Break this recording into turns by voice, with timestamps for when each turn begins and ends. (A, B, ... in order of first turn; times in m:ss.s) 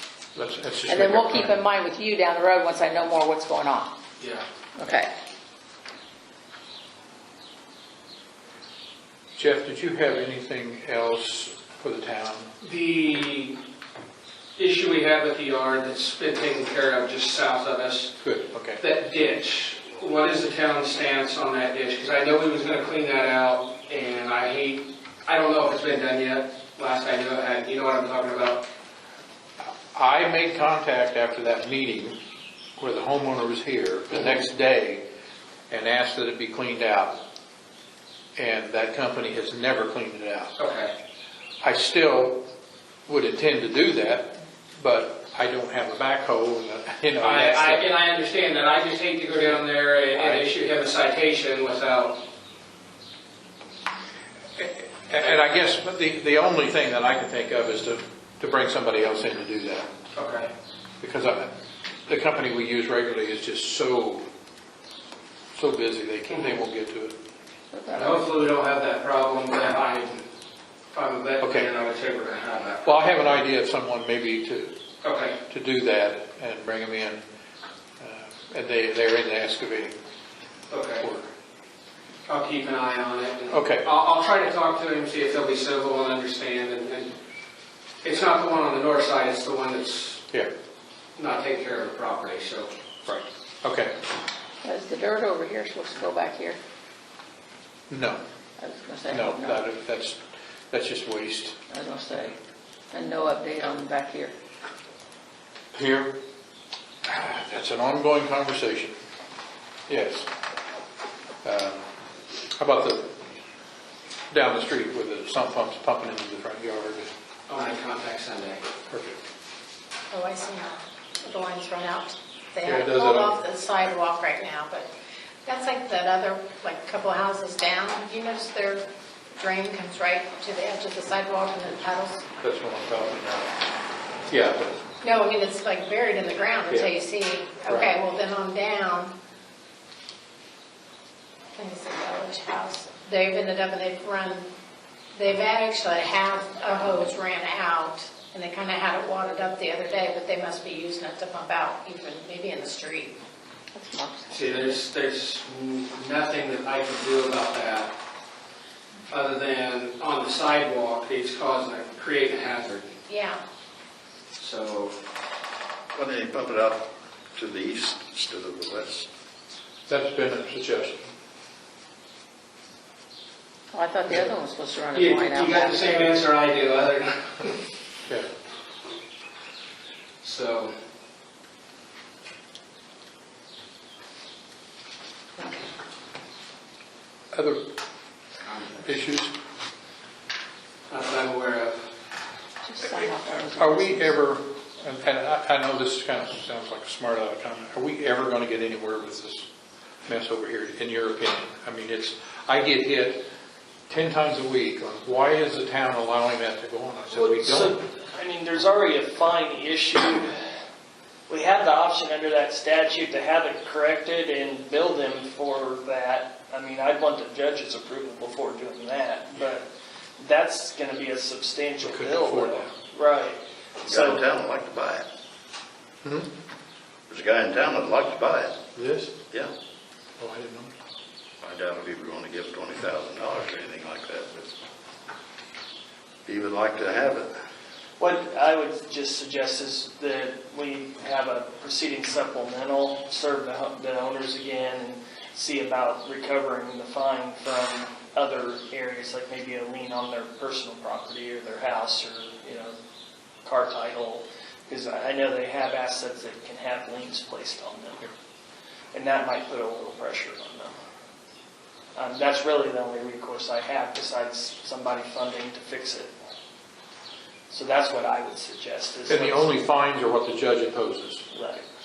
0:00.4-0:01.6 A
0:00.9-0:03.9 B
0:04.2-0:04.4 C
0:04.8-0:05.1 B
0:09.4-0:12.5 A
0:12.6-0:13.6 C
0:14.6-0:18.2 C
0:18.2-0:18.8 A
0:18.8-0:28.6 C
0:29.6-0:32.2 A
0:32.8-0:35.1 A
0:35.7-0:37.2 A
0:38.4-0:40.5 A
0:40.6-0:40.9 C
0:41.6-0:42.4 A
0:43.1-0:47.9 A
0:47.2-0:52.2 C
0:50.1-0:50.5 A
0:54.6-0:59.9 A
1:00.1-1:00.5 C
1:01.0-1:01.5 A
1:02.1-1:04.3 A
1:05.5-1:07.2 A
1:06.3-1:06.6 C
1:07.7-1:08.2 B
1:07.9-1:10.2 C
1:10.9-1:13.0 C
1:11.4-1:11.7 A
1:12.8-1:14.7 A
1:15.0-1:15.4 C
1:15.5-1:17.2 A
1:18.0-1:20.0 A
1:20.7-1:21.1 C
1:21.0-1:21.3 A
1:22.3-1:27.1 C
1:23.5-1:23.9 A
1:28.0-1:30.2 C
1:31.2-1:32.7 C
1:33.1-1:33.9 A
1:34.6-1:36.6 B
1:37.9-1:38.2 A
1:38.6-1:39.6 B
1:39.1-1:40.2 A
1:40.7-1:41.6 A
1:41.7-1:42.4 B
1:42.9-1:44.3 B
1:45.7-1:46.2 A
1:47.0-1:49.0 A
1:49.9-1:50.3 A
1:51.4-1:51.9 A
1:52.6-1:53.1 A
1:54.3-1:57.1 A
1:57.5-1:58.6 C
1:58.9-1:59.2 A
2:00.1-2:04.9 D
2:02.6-2:03.4 A
2:05.5-2:12.2 D
2:12.4-2:13.6 A
2:14.3-2:14.8 A
2:15.0-2:19.1 D
2:16.7-2:16.9 A
2:17.6-2:17.9 A
2:21.6-2:24.5 D
2:25.1-2:33.2 D
2:33.7-2:34.8 B
2:34.3-2:37.9 C
2:39.1-2:42.9 C
2:43.1-2:43.4 D
2:44.4-2:45.0 C
2:45.9-2:49.1 E
2:49.9-2:51.1 A
2:53.7-2:56.1 B
2:54.9-2:57.6 C
3:00.2-3:00.7 C
3:07.3-3:07.7 A
3:08.4-3:08.9 C
3:08.8-3:09.3 A
3:10.9-3:11.8 C
3:12.6-3:14.2 B
3:12.9-3:19.5 A
3:20.1-3:23.2 A
3:23.9-3:27.8 A
3:27.1-3:30.3 F
3:31.3-3:44.2 F
3:41.8-3:42.8 A
3:43.8-3:45.1 E
3:46.0-3:46.3 A
3:47.1-3:48.6 E
3:48.8-3:49.2 A
3:50.2-3:50.7 A
3:51.4-3:54.5 E
3:56.3-3:57.3 E
3:58.0-4:12.8 F
4:13.4-4:18.1 F
4:18.9-4:20.8 F
4:22.0-4:26.1 F
4:27.5-4:29.6 F
4:29.1-4:31.2 A
4:31.3-4:31.7 F